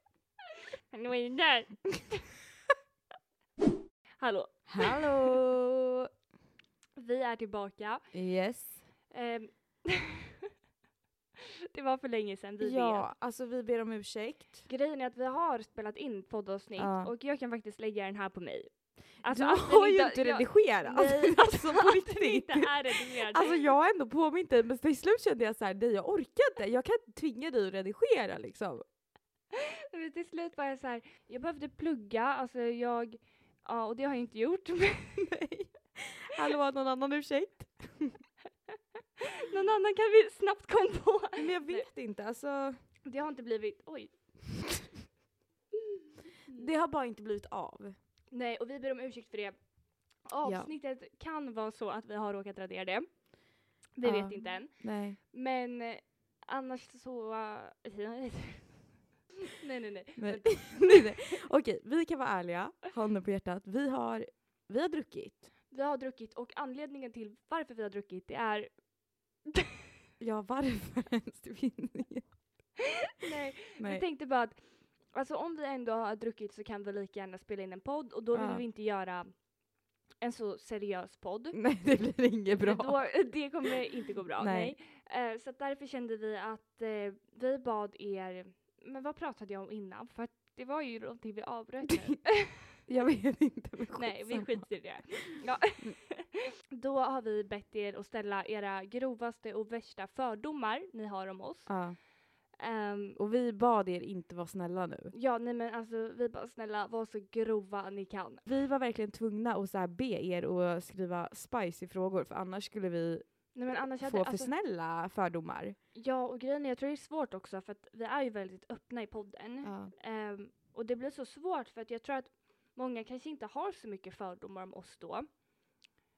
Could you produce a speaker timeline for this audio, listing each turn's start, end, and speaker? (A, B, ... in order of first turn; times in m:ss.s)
0:00.9-0:01.9 A
0:04.2-0:05.1 A
0:04.7-0:06.1 B
0:07.0-0:08.0 A
0:08.1-0:08.8 B
0:09.1-0:10.3 A
0:11.7-0:13.1 A
0:12.6-0:14.7 B
0:14.7-0:23.5 A
0:16.8-0:17.1 B
0:19.3-0:28.8 B
0:29.5-0:35.3 A
0:35.2-0:38.2 B
0:39.4-0:41.9 A
0:41.4-0:42.8 B
0:43.0-0:44.2 A
0:46.5-0:48.0 B
0:48.3-0:49.6 A
0:50.2-0:53.2 A
0:50.4-0:50.7 B
0:53.9-0:58.9 A
0:54.0-0:55.2 B
0:59.4-1:01.3 A
1:00.2-1:05.5 B
1:05.7-1:08.7 A
1:10.2-1:12.3 B
1:13.2-1:19.4 A
1:13.7-1:14.0 B
1:18.3-1:18.6 B
1:20.2-1:21.6 A
1:21.5-1:23.0 B
1:22.6-1:32.8 A
1:24.4-1:24.7 B
1:32.8-1:34.7 B
1:33.9-1:41.7 A
1:41.7-1:42.0 B
1:42.5-1:43.2 A
1:43.2-1:45.1 B
1:45.1-1:48.5 A
1:48.4-1:55.8 B
1:53.5-1:54.5 A
1:55.9-2:05.3 A
1:59.6-1:59.9 B